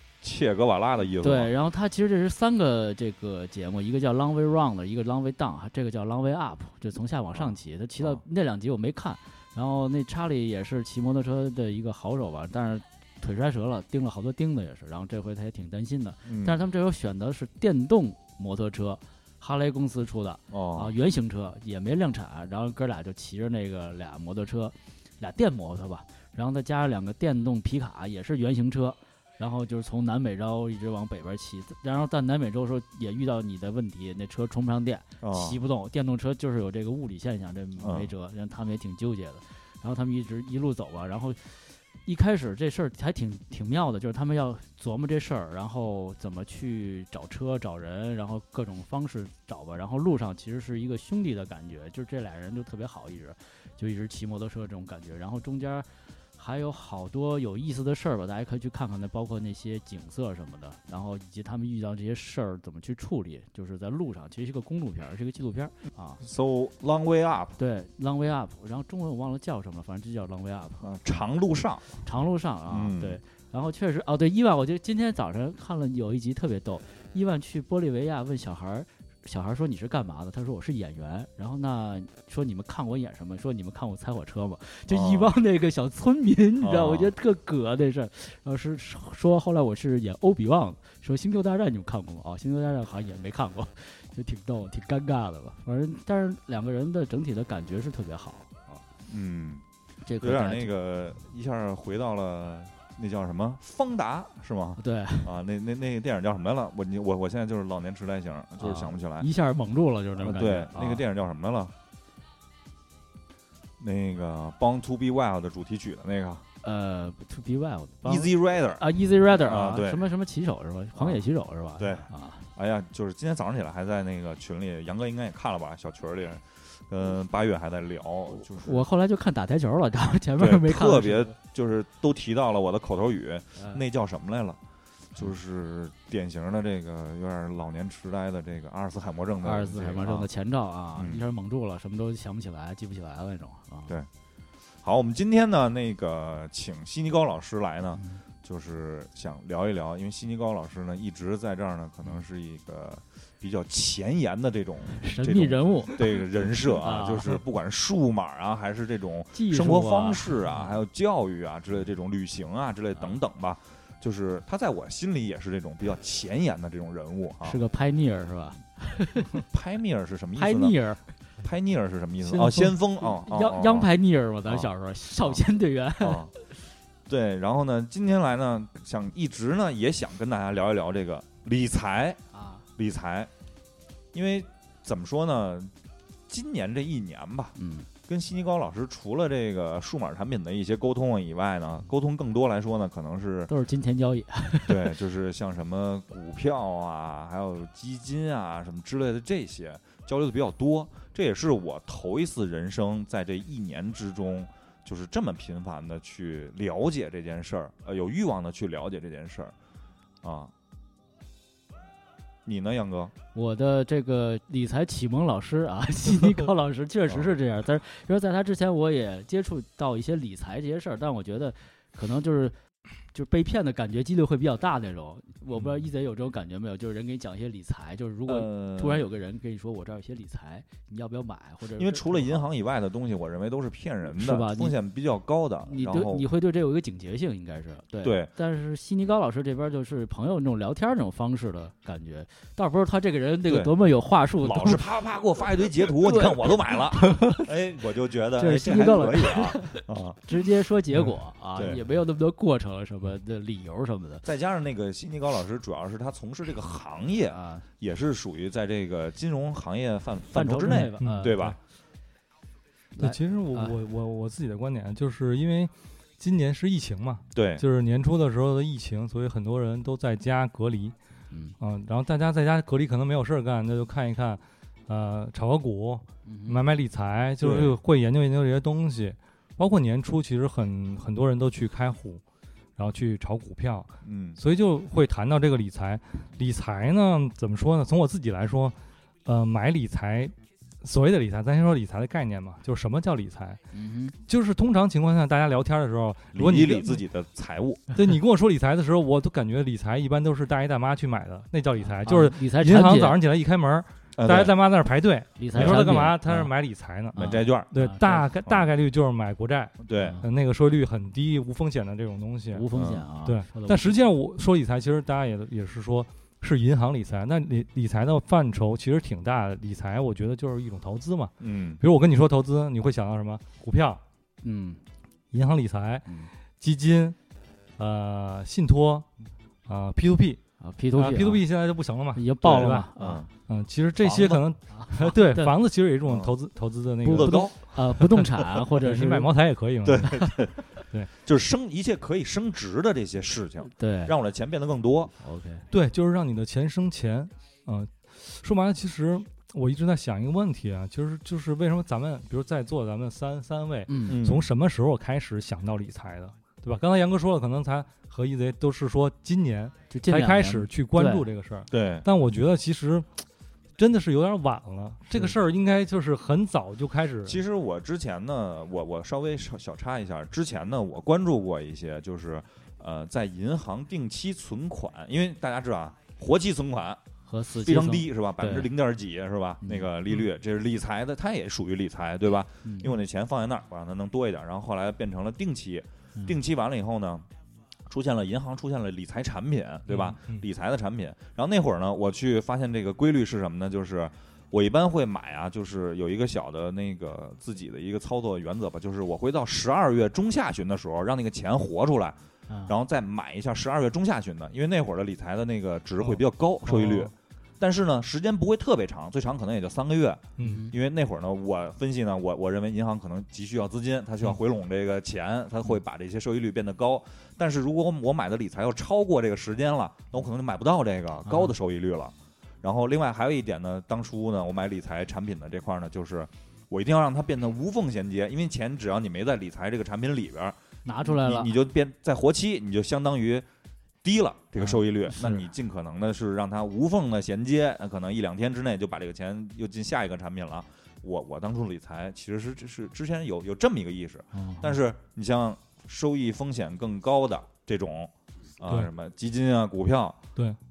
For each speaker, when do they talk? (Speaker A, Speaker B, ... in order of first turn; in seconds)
Speaker A: 0.2-1.5, 16.3-16.6, 20.5-20.9, 35.2-35.6, 37.8-38.1, 66.2-67.6, 70.8-72.1, 72.7-73.2, 84.9-85.3, 86.6-87.1, 99.0-99.6, 100.2-109.3, 110.2-111.7, 113.8-116.4, 118.0-120.0, 121.0-121.2, 121.8-128.9, 130.4-134.6, 135.2-140.3, 140.9-141.2, 144.8-167.6, 169.3-170.8, 171.4-173.9, 176.0-176.3, 177.1-182.2, 182.8-183.3, 184.1-185.7, 186.3-193.5, 194.7-209.5, 210.2-210.5, 212.5-213.1, 217.1-217.4, 228.3-229.1, 231.7-236.3, 238.0-238.3, 243.5-243.7, 244.4-250.3, 251.6-251.8, 254.2-261.6, 267.3-267.6, 277.4-277.8, 284.0-284.4, 296.3-297.9, 304.2-304.5, 305.6-305.8, 307.2-307.7, 309.8-310.2, 312.8-313.0, 321.4-321.8, 332.4-333.3, 334.0-334.4, 336.1-336.3, 337.1-337.7, 339.9-340.6, 341.2-345.1, 354.1-354.5, 361.7-362.1, 367.3-377.0, 377.6-387.3, 387.9-433.5, 434.0-450.2
Speaker B: 1.2-66.2, 67.6-70.8, 72.0-98.8, 100.0-100.7, 104.8-105.3, 108.6-111.0, 116.6-122.5, 128.3-131.3, 133.6-133.8, 139.4-144.0, 148.0-148.2, 154.9-157.4, 159.3-160.8, 167.4-169.4, 170.3-171.0, 172.2-176.5, 182.3-182.7, 187.6-187.9, 193.5-194.9, 213.3-222.6, 223.1-232.5, 234.1-234.8, 235.7-244.9, 245.8-247.5, 248.4-254.3, 257.3-257.7, 260.3-261.6, 263.0-263.8, 271.3-271.6, 276.3-276.6, 293.7-294.2, 301.8-303.2, 305.4-306.5, 307.1-308.3, 310.0-310.3, 312.5-314.0, 324.4-324.8, 330.6-331.5, 332.1-333.3, 334.7-335.6, 337.0-339.3, 343.8-344.1, 345.2-345.7, 353.9-354.2, 359.9-361.3, 377.3-378.7, 379.6-379.9, 382.6-382.9, 402.5-402.8, 410.4-410.8, 421.3-421.5, 430.9-431.6, 434.6-435.5, 444.3-444.8
Speaker C: 260.7-261.5, 263.0-270.9, 271.6-282.2, 282.8-293.6, 294.3-297.0, 297.9-312.7, 313.2-324.0, 325.3-327.2, 327.8-329.1, 329.7-330.4, 330.9-340.4, 345.7-363.2, 363.8-367.4, 389.9-390.4, 406.1-407.1, 410.4-410.7